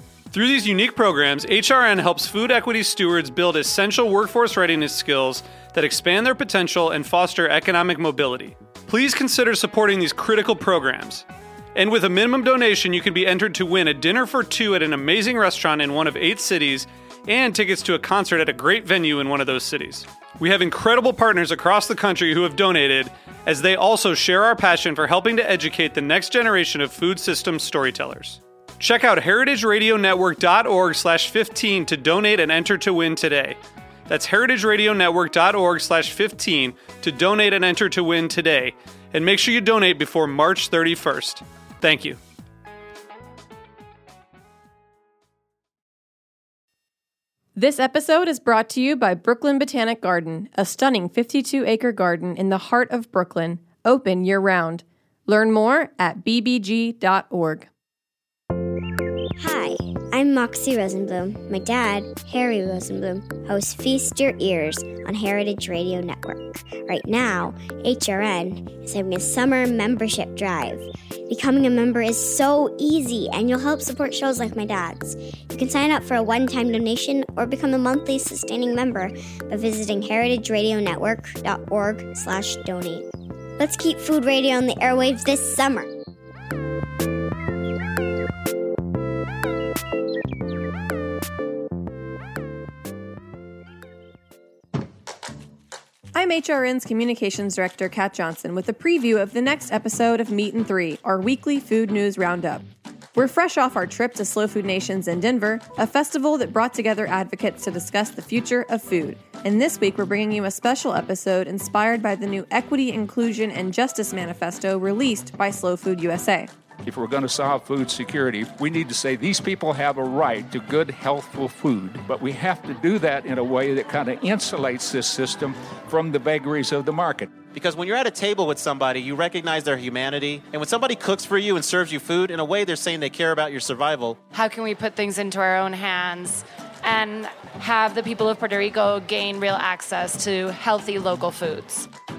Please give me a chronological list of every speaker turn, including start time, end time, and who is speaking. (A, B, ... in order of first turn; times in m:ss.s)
0:00.3-0:42.2 A
0:47.6-0:57.7 B
0:59.4-1:23.0 C
1:23.6-1:25.9 C
1:36.1-1:56.5 B
1:56.8-2:07.3 D
2:07.5-2:14.2 E
2:14.3-2:21.9 F